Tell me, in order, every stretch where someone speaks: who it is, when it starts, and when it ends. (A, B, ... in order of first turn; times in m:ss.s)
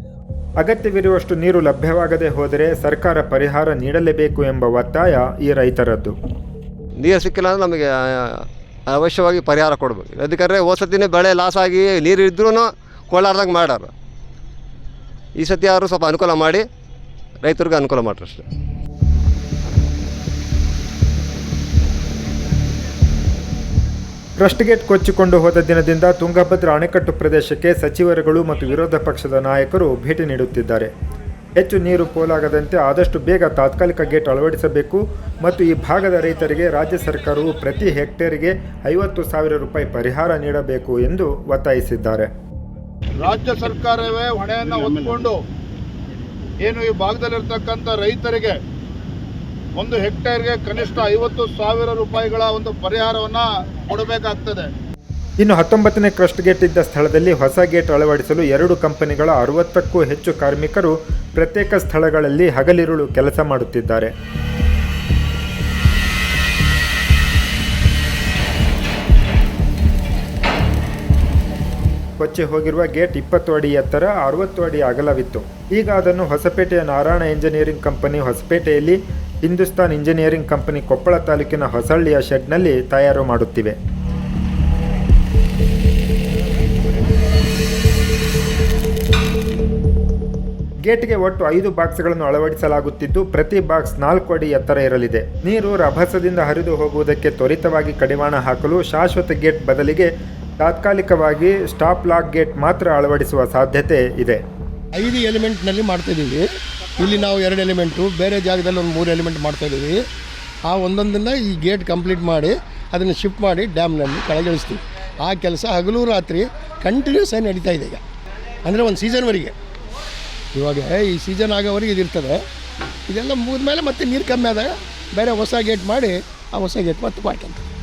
0:00.6-0:06.2 A
0:07.0-0:13.9 B
0:15.4-0:16.7 B
0:17.4-0:18.4 B
0:24.4-0:30.9 A
0:31.6-0:42.3 A
0:43.2-0:45.4 C
0:46.6-0:48.6 C
0:49.8-0:54.7 C
0:55.4-1:04.1 A
1:12.2-1:23.8 A
1:30.9-1:44.4 A
1:44.9-1:46.4 D
1:47.0-1:50.0 D
1:50.6-1:58.0 D
1:58.6-1:59.5 D
2:00.6-2:02.4 D
2:03.1-2:07.6 D